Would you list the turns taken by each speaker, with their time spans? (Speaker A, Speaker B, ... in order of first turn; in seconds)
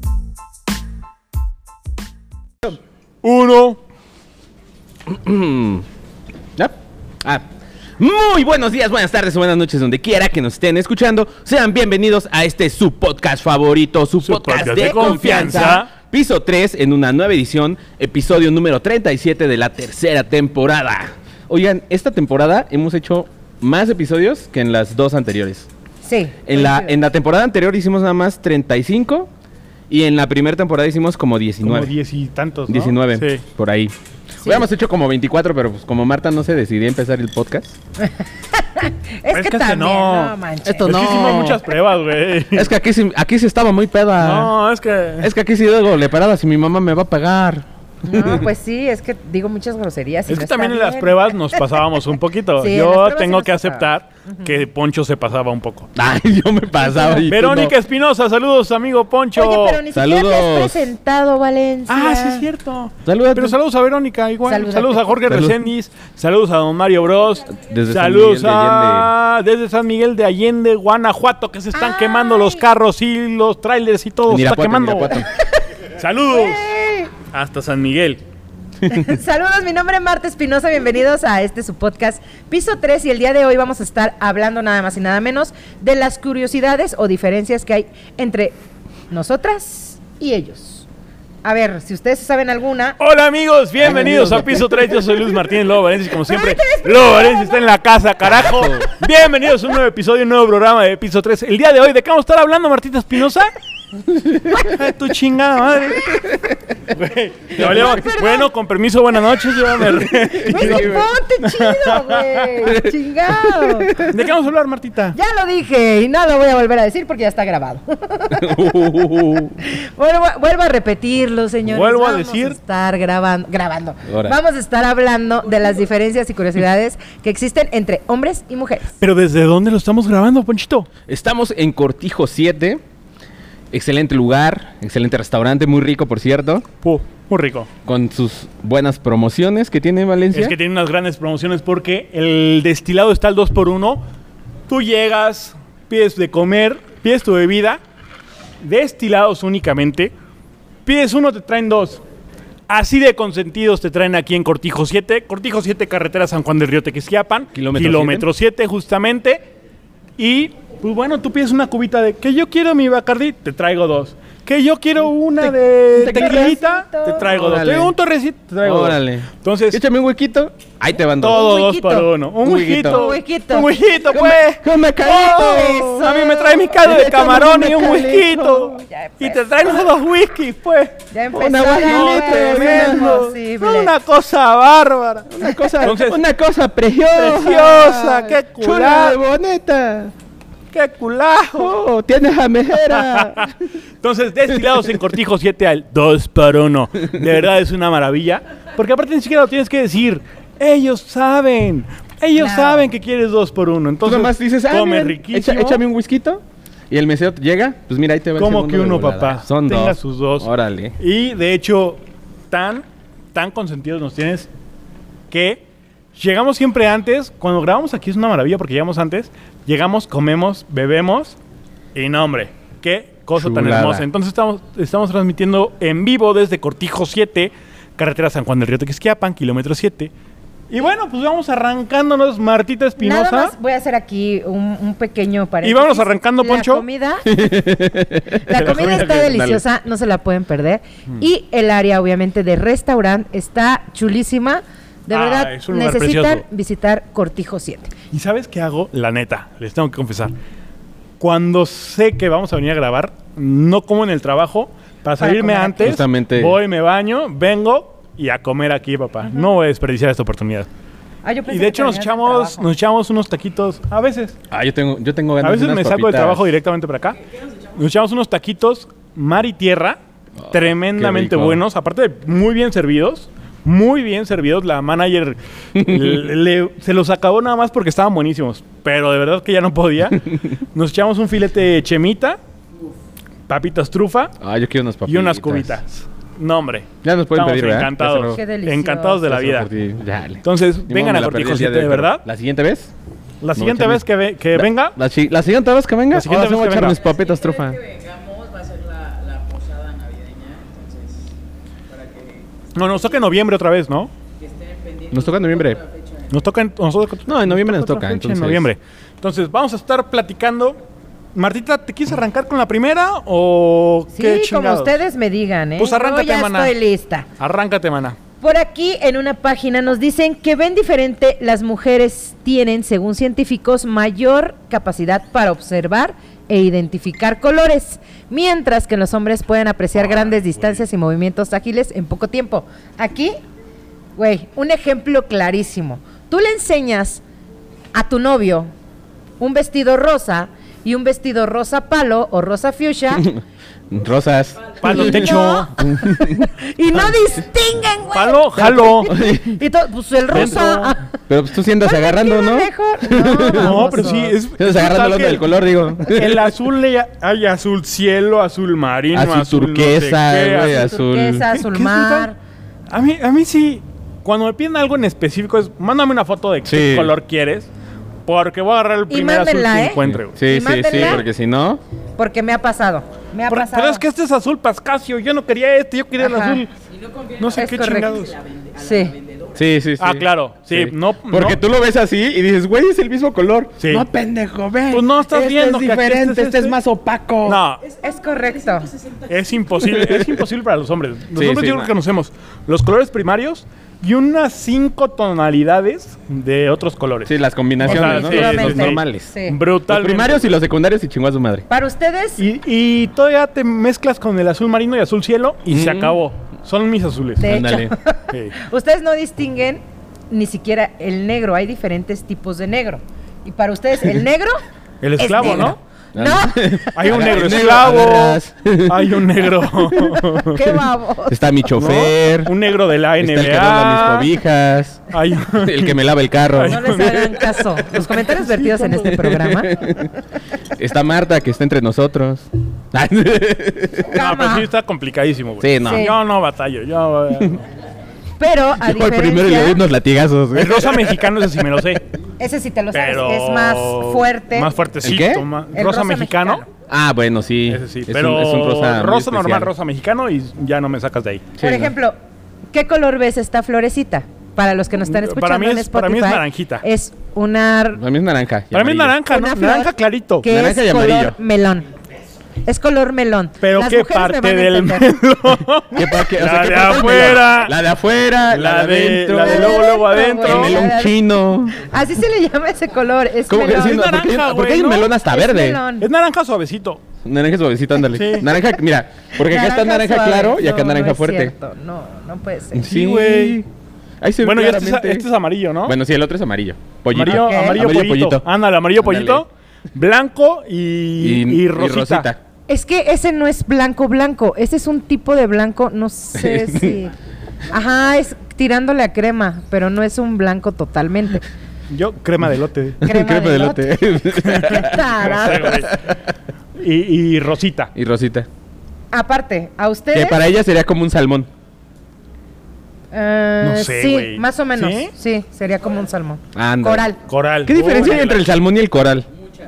Speaker A: 3.2-3.8, 14.2-15.9, 31.6-33.4, 39.3-42.7, 44.2-45.3, 50.3-55.9, 57.2-59.8, 61.9-75.2, 76.0-76.7, 77.3-78.2, 93.0-103.5, 104.5-106.1, 106.9-110.9, 111.4-112.5, 114.1-115.2, 121.7-122.6, 129.0-130.9, 136.8-137.7, 140.3-144.0, 144.7-147.8, 148.6-150.1, 150.8-152.0, 152.7-159.4, 160.2-169.8, 171.2-174.6, 175.3-180.9, 181.8-186.2, 187.1-189.2, 190.7-191.7, 192.8-205.8, 208.4-214.5, 215.3-215.6, 216.2-221.4, 221.9-230.1, 230.7-233.5, 235.6-236.8, 238.6-239.2, 245.1-246.4, 248.1-250.3, 251.2-260.7, 261.5-264.4, 265.4-267.2, 267.7-270.0, 270.5-282.4, 283.5-284.3, 285.1-289.7, 290.4-292.2, 293.4-294.9, 296.1-297.0, 302.7-304.1, 306.3-310.8, 311.3-315.0, 315.8-316.7, 317.4-318.2, 330.1-330.8, 344.8-345.7, 348.1-349.1, 350.3-350.9, 353.5-360.9, 361.5-362.3, 362.9-367.7, 368.3-370.4, 373.5-376.7, 377.4-378.4, 380.0-381.6, 383.8-384.1, 384.9-386.8, 387.4-387.8, 389.3-400.5, 402.4-407.6, 415.0-415.8, 416.9-420.6, 421.8-424.3, 425.1-426.0, 426.5-428.5, 434.1-437.6, 440.5-442.0, 442.9-446.6, 447.7-451.5, 455.1-456.9, 458.7-460.5, 463.6-467.7, 468.5-470.8, 473.6-475.1, 476.0-477.0, 478.1-478.5, 482.8-483.6, 484.4-485.9, 487.1-492.3, 501.9-503.0, 505.2-505.9, 506.8-507.9, 513.6-515.1, 517.2-518.5
Speaker B: 5.0-5.8, 6.5-7.5, 8.0-25.7, 26.4-29.3, 29.9-31.9, 32.7-37.8, 40.6-41.6, 42.5-44.5, 45.2-48.5, 55.9-57.7, 59.9-60.9, 63.0-63.6, 65.3-65.6, 67.5-69.1, 74.3-75.3, 78.8-79.2, 93.8-94.9, 98.2-98.9, 104.1-104.6, 106.1-106.5, 107.6-107.9, 110.0-111.1, 112.6-114.2, 118.3-119.6, 124.1-124.4, 131.1-132.8, 133.7-136.7, 137.8-140.6, 157.5-158.3, 165.4-166.6, 167.2-167.9, 168.6-171.5, 172.4-173.0, 174.1-176.2, 176.7-178.8, 181.3-183.3, 185.3-190.1, 191.6-193.5, 194.5-194.9, 204.0-210.9, 223.3-224.1, 237.2-239.6, 255.8-256.6, 264.5-266.5, 270.4-271.6, 275.8-276.2, 284.4-285.8, 287.0-288.4, 289.2-292.9, 293.5-297.8, 305.1-305.8, 307.3-308.7, 343.1-346.5, 348.6-349.6, 350.3-350.7, 351.3-353.9, 354.6-356.5, 359.1-361.5, 366.6-367.1, 370.0-371.8, 379.5-387.6, 389.8-390.4, 391.3-391.9, 397.2-399.3, 399.9-401.6, 405.7-406.2, 407.4-407.9, 415.4-420.2, 421.3-422.5, 423.2-425.0, 425.6-427.1, 428.7-430.1, 430.8-434.1, 435.6-436.1, 438.8-441.5, 445.0-445.4, 446.9-449.7, 451.6-451.9, 457.9-459.2, 460.5-461.4, 465.9-471.7, 473.5-475.8, 477.2-481.5, 482.7-483.7, 484.2-485.3, 485.8-488.4, 489.0-489.4, 491.2-492.4, 496.3-497.0, 503.0-506.2, 507.9-508.5, 510.1-511.5, 516.5-517.1, 517.6-519.3
Speaker C: 26.0-26.9, 38.0-41.0, 48.0-51.6, 52.6-54.5, 56.8-57.3, 59.4-62.5, 64.5-65.2, 71.7-72.6, 76.3-77.1, 78.9-88.5, 89.1-90.8, 91.4-93.0, 96.2-97.7, 107.5-108.5, 110.4-113.9, 115.1-118.8, 119.6-128.9, 166.0-167.2, 171.3-172.1, 172.8-173.7, 175.0-176.6, 178.9-179.8, 181.1-183.9, 202.3-202.9, 233.0-237.3, 238.4-247.9, 255.2-255.9, 261.2-262.7, 288.3-289.2, 314.1-317.3, 318.4-333.4, 334.1-337.2, 337.9-338.7, 339.4-343.3, 344.8-351.1, 351.8-354.4, 360.6-362.4, 369.1-371.2, 372.2-374.0, 376.2-376.6, 377.6-378.2, 378.7-379.2, 388.0-388.9, 397.8-399.6, 401.7-402.4, 407.4-414.6, 415.2-416.9, 420.4-421.8, 426.7-430.0, 434.1-434.7, 435.8-436.1, 438.4-439.8, 442.4-444.7, 445.7-446.7, 451.6-452.2, 452.7-458.0, 459.3-459.9, 460.4-461.9, 462.6-465.2, 469.4-471.1, 471.8-474.1, 475.3-476.1, 479.4-483.0, 487.2-487.8, 492.7-497.1, 497.7-501.4, 503.0-505.8, 509.1-510.4, 513.1-517.2
Speaker D: 297.0-301.3, 301.9-302.5, 304.4-306.2, 378.5-379.5